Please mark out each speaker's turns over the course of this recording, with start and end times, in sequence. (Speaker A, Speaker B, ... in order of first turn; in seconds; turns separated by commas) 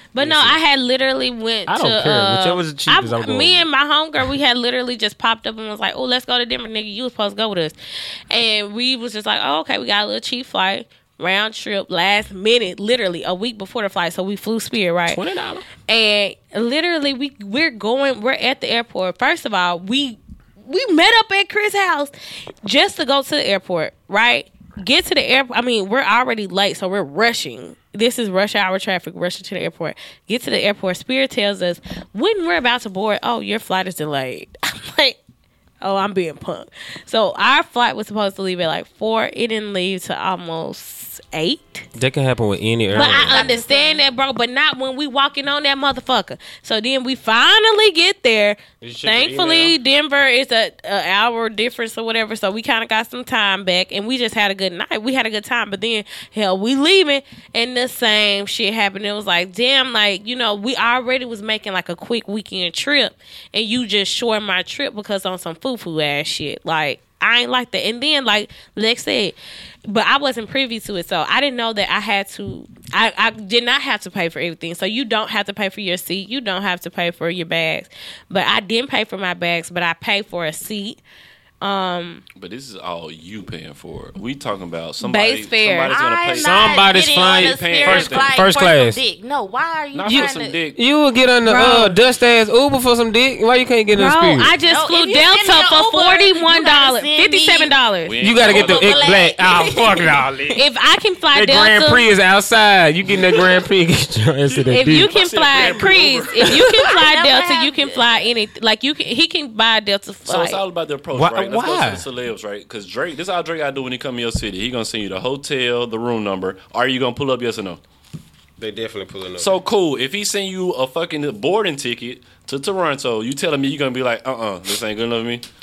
Speaker A: 0.1-7.8, Speaker B: 0.2-0.6, Speaker B: 1.7-3.7, Speaker A: 8.3-15.2, Speaker B: 15.1-15.6, Speaker A: 15.9-22.1, Speaker A: 22.6-35.2, Speaker A: 35.8-41.9, Speaker B: 42.0-43.5, Speaker C: 42.9-44.0, Speaker A: 42.9-69.4, Speaker B: 48.8-49.8, Speaker A: 69.9-81.0, Speaker A: 81.6-82.2, Speaker D: 82.4-88.4, Speaker A: 85.0-85.9, Speaker C: 85.9-90.6, Speaker B: 86.4-89.0, Speaker D: 89.9-90.8, Speaker B: 90.1-94.5, Speaker A: 91.5-92.0, Speaker A: 93.9-98.1, Speaker C: 94.7-97.7, Speaker D: 98.0-99.1, Speaker B: 98.2-100.6, Speaker C: 98.4-100.2, Speaker A: 100.5-102.1, Speaker B: 101.3-105.1, Speaker D: 104.6-106.7, Speaker A: 104.7-110.6, Speaker C: 106.3-108.3, Speaker D: 110.3-117.8, Speaker B: 111.1-112.1, Speaker B: 118.6-119.5, Speaker D: 119.4-125.4